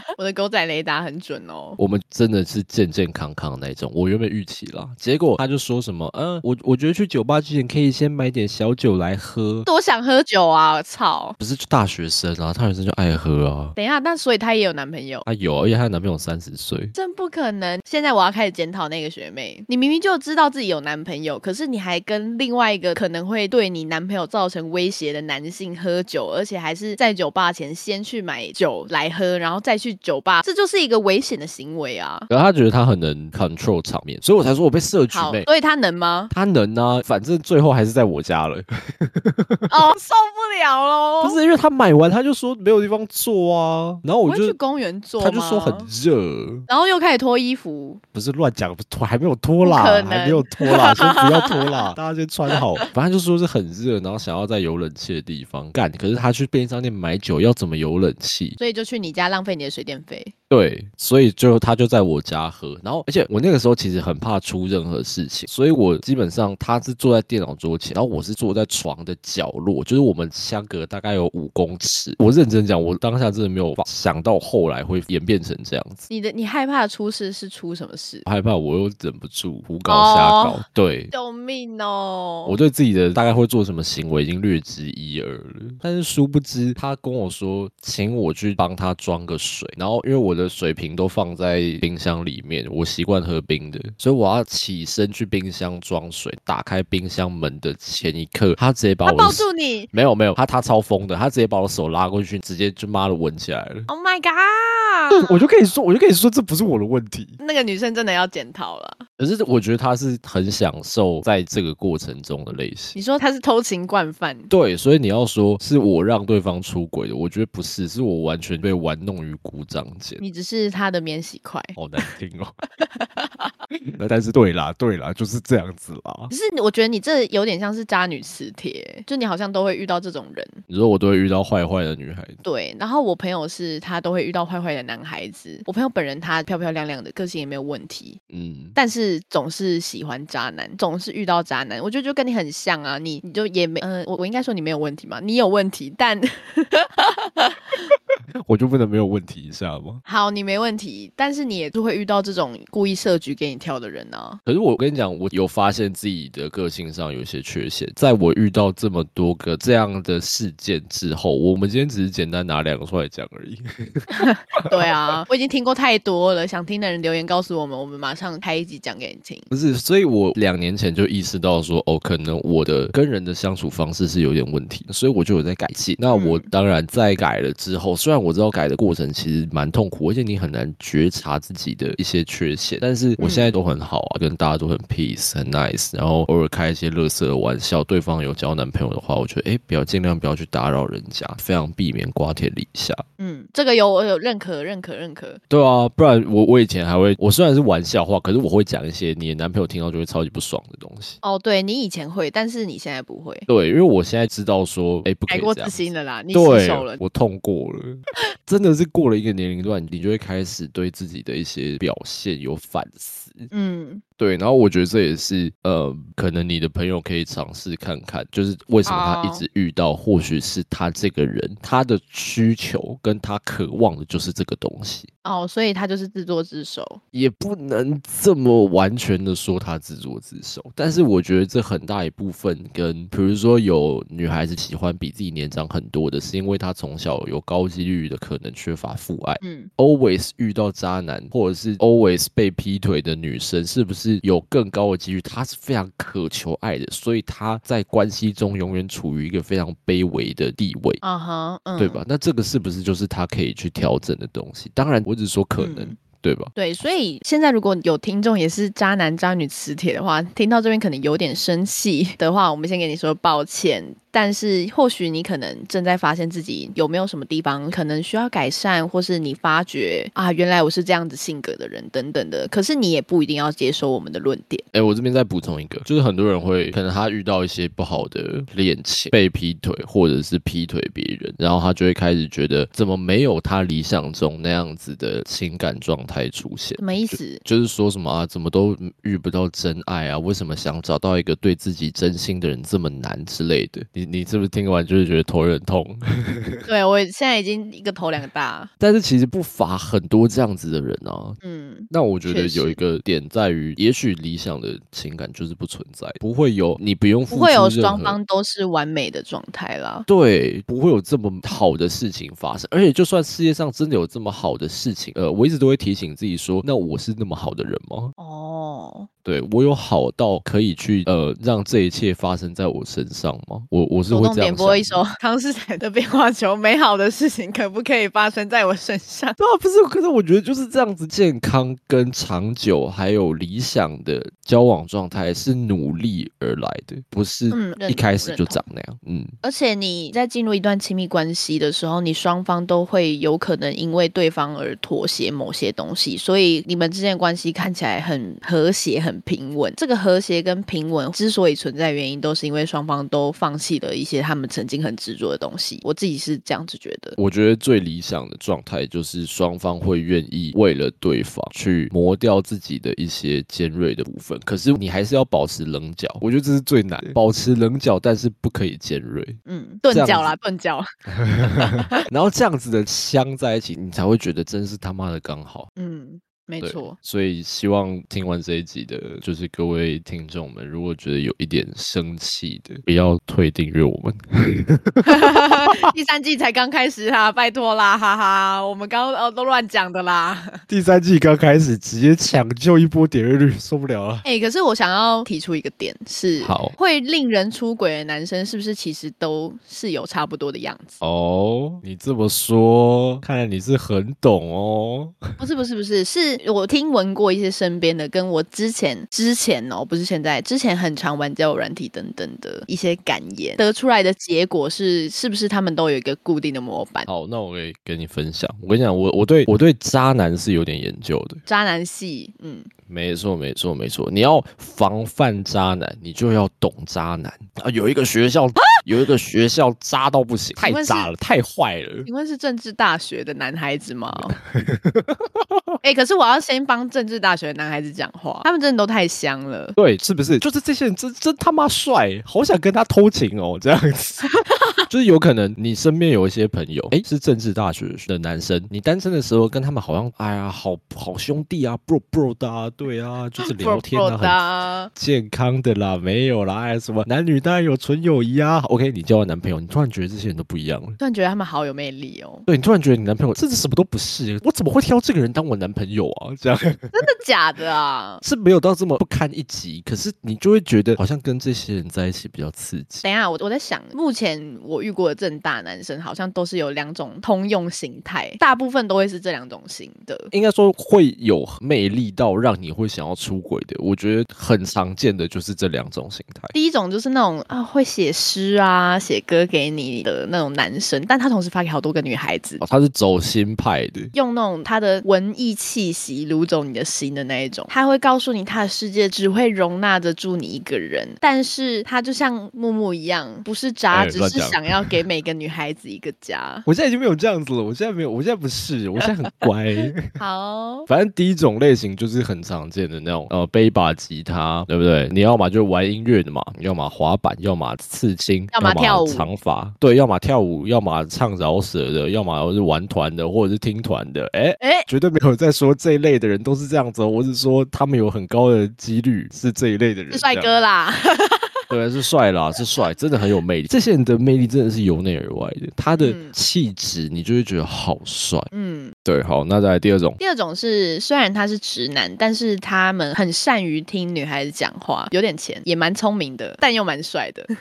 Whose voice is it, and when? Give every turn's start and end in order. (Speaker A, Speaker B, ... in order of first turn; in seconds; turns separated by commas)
Speaker A: 0.2-1.8, Speaker B: 1.8-9.7, Speaker A: 9.6-11.4, Speaker B: 11.4-13.8, Speaker A: 13.8-15.2, Speaker B: 15.2-16.9, Speaker A: 16.9-32.3, Speaker B: 32.3-35.5, Speaker A: 35.1-36.3, Speaker B: 36.3-39.7, Speaker A: 39.7-41.4, Speaker B: 41.2-44.6, Speaker A: 44.2-45.9, Speaker B: 45.2-46.7, Speaker A: 46.7-48.0, Speaker B: 48.1-58.6, Speaker A: 49.6-51.9, Speaker A: 52.6-52.9, Speaker A: 58.6-60.3, Speaker B: 60.5-76.1, Speaker A: 76.1-78.2, Speaker B: 78.2-81.1, Speaker A: 79.9-82.6, Speaker B: 82.5-103.9, Speaker A: 99.1-99.9, Speaker A: 103.9-105.4, Speaker B: 105.1-107.4, Speaker A: 107.4-109.0, Speaker B: 109.2-113.0, Speaker A: 112.9-114.5, Speaker B: 114.5-120.2, Speaker A: 120.2-122.1, Speaker B: 121.8-122.5, Speaker A: 122.8-123.5, Speaker B: 124.0-126.3, Speaker A: 126.3-130.6, Speaker B: 130.7-132.4, Speaker A: 132.4-138.2, Speaker B: 138.3-138.8, Speaker A: 138.8-147.8, Speaker B: 148.4-150.0, Speaker A: 150.1-154.4, Speaker B: 154.5-165.2, Speaker A: 164.1-169.5, Speaker B: 169.5-193.0, Speaker A: 176.1-176.5, Speaker A: 183.2-183.5, Speaker A: 193.2-195.4, Speaker B: 195.5-201.2, Speaker A: 201.2-203.5, Speaker B: 203.5-213.5, Speaker A: 205.3-207.0, Speaker A: 213.5-214.0, Speaker B: 214.2-225.1, Speaker A: 218.9-219.4, Speaker A: 225.2-227.0, Speaker B: 227.1-251.0, Speaker A: 239.4-239.7, Speaker A: 251.0-252.0, Speaker B: 251.8-256.5, Speaker A: 255.6-256.0, Speaker A: 256.6-274.6, Speaker B: 274.7-296.7, Speaker A: 286.8-287.4, Speaker A: 296.7-298.7, Speaker B: 298.8-301.4, Speaker A: 301.4-302.8, Speaker B: 301.9-308.2, Speaker A: 307.3-310.1, Speaker B: 310.1-318.1, Speaker A: 318.2-319.1, Speaker B: 319.2-325.0, Speaker A: 324.1-329.4, Speaker B: 329.4-339.3, Speaker A: 337.5-338.6, Speaker A: 339.4-357.2, Speaker B: 357.2-369.4, Speaker A: 369.4-370.9, Speaker B: 369.9-370.4, Speaker B: 371.1-375.7, Speaker A: 371.4-372.0, Speaker A: 375.8-376.9, Speaker B: 376.6-385.9, Speaker A: 385.1-390.6, Speaker B: 390.7-394.2, Speaker A: 394.2-401.0, Speaker B: 396.4-396.8, Speaker B: 401.0-405.4, Speaker A: 405.4-417.1, Speaker B: 417.1-421.4, Speaker A: 421.5-422.7, Speaker B: 422.9-432.1, Speaker A: 430.6-431.1, Speaker A: 432.1-434.4, Speaker B: 434.4-435.7, Speaker A: 435.8-439.8, Speaker B: 439.8-444.3, Speaker A: 444.3-444.8, Speaker B: 444.9-461.0, Speaker A: 453.4-454.9, Speaker A: 461.0-462.4, Speaker B: 462.4-466.9, Speaker A: 466.9-468.2, Speaker B: 468.2-473.1, Speaker A: 473.0-480.3, Speaker B: 480.3-486.5, Speaker A: 486.5-492.6, Speaker B: 492.6-494.1, Speaker A: 494.1-506.6, Speaker B: 503.9-504.9, Speaker B: 506.6-510.1, Speaker A: 510.1-510.9, Speaker B: 510.9-530.5, Speaker A: 518.5-519.3, Speaker A: 524.6-524.9, Speaker A: 530.1-531.6, Speaker B: 531.7-538.5, Speaker A: 536.0-536.4, Speaker A: 538.5-538.9, Speaker B: 539.0-540.2, Speaker A: 540.2-547.5